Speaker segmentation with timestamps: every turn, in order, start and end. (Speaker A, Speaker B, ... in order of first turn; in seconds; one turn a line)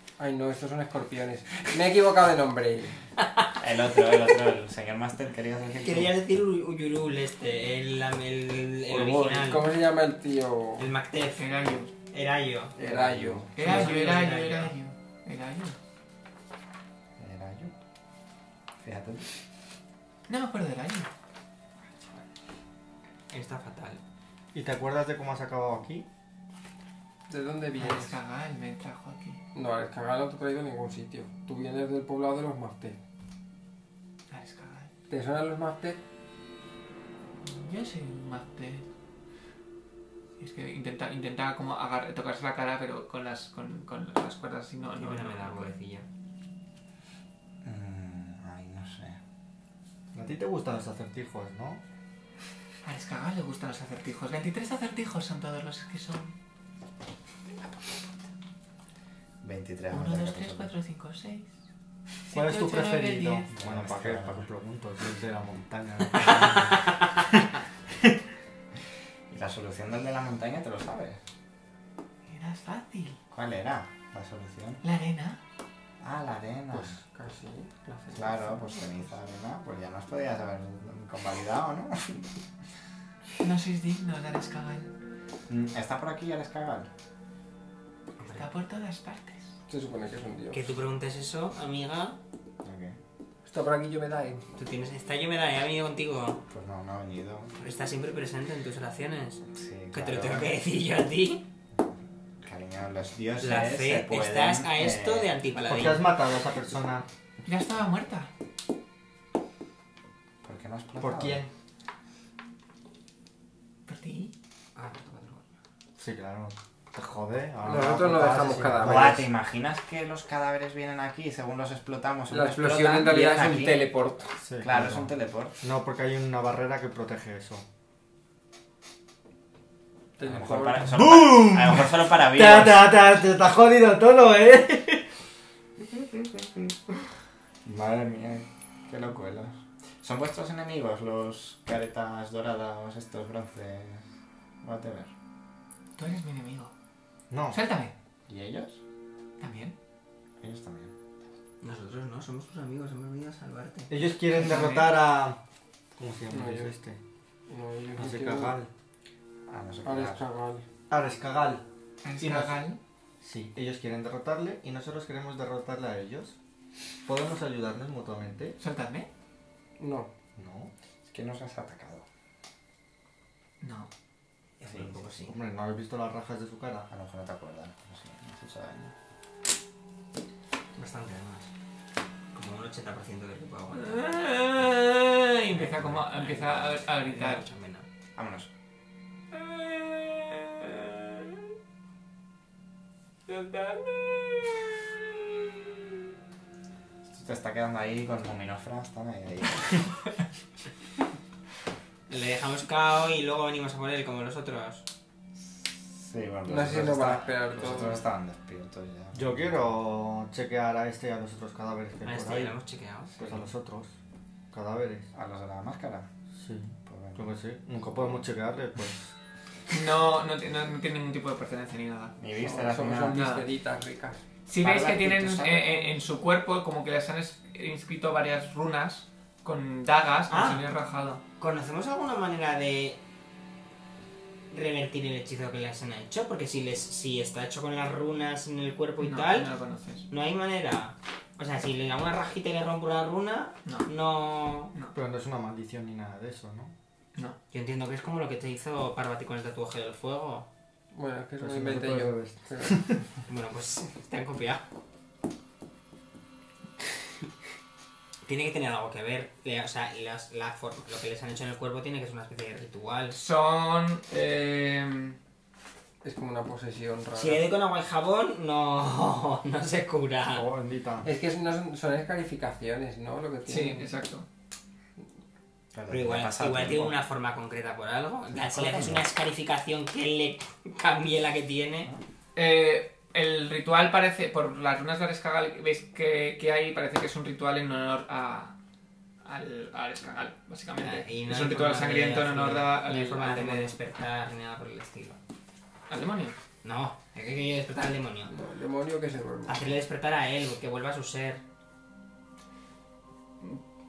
Speaker A: 0.2-3.0
Speaker B: 3.2-3.5
Speaker C: 3.6-6.1
Speaker B: 5.8-9.7
Speaker A: 8.9-10.9
Speaker B: 10.8-11.6
Speaker D: 11.3-11.9
Speaker B: 12.1-12.8
Speaker A: 12.8-13.9
Speaker C: 12.8-13.5
Speaker B: 13.5-14.7
Speaker D: 13.5-15.8
Speaker C: 17.2-17.7
Speaker C: 18.8-19.3
Speaker D: 20.3-21.1
Speaker B: 23.3-24.0
Speaker E: 24.5-26.1
Speaker A: 27.3-28.1
Speaker D: 27.7-29.4
Speaker A: 29.5-33.0
Speaker D: 34.3-34.9
Speaker A: 35.1-36.0
Speaker D: 37.4-38.8
Speaker D: 40.4-45.7
Speaker B: 45.0-46.1
Speaker C: 47.6-49.2
Speaker E: 50.1-51.8
Speaker D: 52.8-56.4
Speaker C: 59.4-60.7
Speaker D: 59.9-61.5
Speaker D: 62.3-63.5
Speaker E: 62.3-67.0
Speaker C: 63.5-64.5
Speaker C: 69.3-71.2
Speaker D: 72.3-73.2
Speaker C: 73.3-74.8
Speaker D: 74.8-75.4
Speaker C: 76.0-77.0
Speaker A: 76.7-79.0
Speaker C: 78.1-82.3
Speaker D: 83.4-84.9
Speaker C: 85.5-86.9
Speaker B: 88.2-88.6
Speaker D: 88.4-89.6
Speaker A: 89.7-90.7
Speaker B: 90.5-92.2
Speaker C: 92.6-93.0
Speaker A: 93.4-94.4
Speaker B: 94.5-96.4
Speaker C: 96.5-97.5
Speaker B: 97.6-101.5
Speaker C: 99.5-100.5
Speaker C: 102.4-105.4
Speaker B: 103.4-106.1
Speaker D: 105.7-106.0
Speaker E: 105.7-107.0
Speaker D: 107.4-108.3
Speaker C: 110.4-111.4
Speaker E: 111.0-111.5
Speaker D: 113.9-114.3
Speaker B: 114.7-115.5
Speaker E: 116.0-119.2
Speaker A: 117.6-119.2
Speaker C: 118.8-123.8
Speaker A: 122.3-124.3
Speaker E: 124.4-127.7
Speaker C: 124.6-125.6
Speaker A: 130.2-130.9
Speaker C: 130.2-132.9
Speaker E: 130.9-135.1
Speaker C: 137.6-144.1
Speaker C: 144.6-145.1
Speaker D: 145.9-146.7
Speaker E: 147.3-147.6
Speaker D: 147.5-147.9
Speaker C: 148.3-148.8
Speaker D: 149.4-149.7
Speaker C: 150.4-150.9
Speaker B: 151.6-153.9
Speaker E: 153.9-155.4
Speaker D: 154.3-154.9
Speaker E: 155.9-157.0
Speaker A: 156.3-156.7
Speaker A: 157.5-158.6
Speaker E: 157.9-158.7
Speaker C: 159.5-160.2
Speaker A: 159.8-160.7
Speaker E: 160.9-161.6
Speaker D: 162.0-162.8
Speaker E: 162.2-166.3
Speaker E: 167.0-168.6
Speaker D: 168.6-169.1
Speaker A: 169.8-170.1
Speaker E: 170.3-170.7
Speaker C: 171.0-172.0
Speaker D: 173.6-173.9
Speaker B: 174.6-175.4
Speaker C: 174.6-175.1
Speaker E: 175.3-176.9
Speaker C: 176.9-178.9
Speaker B: 180.8-181.5
Speaker B: 182.3-184.1
Speaker D: 183.7-187.4
Speaker B: 185.5-187.9
Speaker C: 188.2-188.5
Speaker D: 189.3-191.3
Speaker D: 193.3-194.8
Speaker C: 197.1-199.9
Speaker B: 202.1-204.9
Speaker C: 205.4-209.7
Speaker A: 206.4-208.0
Speaker E: 209.1-212.6
Speaker B: 212.0-213.1
Speaker E: 213.2-213.9
Speaker C: 213.2-213.4
Speaker E: 214.5-215.1
Speaker C: 215.1-216.1
Speaker E: 216.3-219.1
Speaker C: 216.8-218.2
Speaker D: 219.7-222.2
Speaker C: 222.2-223.3
Speaker A: 222.4-224.2
Speaker D: 223.1-223.4
Speaker D: 224.5-231.2
Speaker B: 224.6-225.7
Speaker B: 230.3-230.6
Speaker B: 231.4-233.0
Speaker B: 234.5-239.5
Speaker D: 239.0-240.0
Speaker B: 240.1-244.7
Speaker E: 244.9-246.7
Speaker B: 247.5-250.5
Speaker A: 250.9-252.8
Speaker E: 251.4-253.0
Speaker B: 253.3-254.7
Speaker B: 258.2-263.2
Speaker D: 263.1-265.2
Speaker A: 266.0-267.4
Speaker B: 267.1-270.4
Speaker E: 270.3-271.1
Speaker A: 271.0-273.9
Speaker D: 273.5-274.2
Speaker C: 275.7-277.0
Speaker B: 275.9-281.9
Speaker C: 278.4-279.0
Speaker D: 282.3-288.5
Speaker D: 289.2-293.8
Speaker B: 290.8-295.2
Speaker D: 295.9-296.4
Speaker B: 296.6-298.3
Speaker A: 298.3-299.7
Speaker B: 299.5-301.4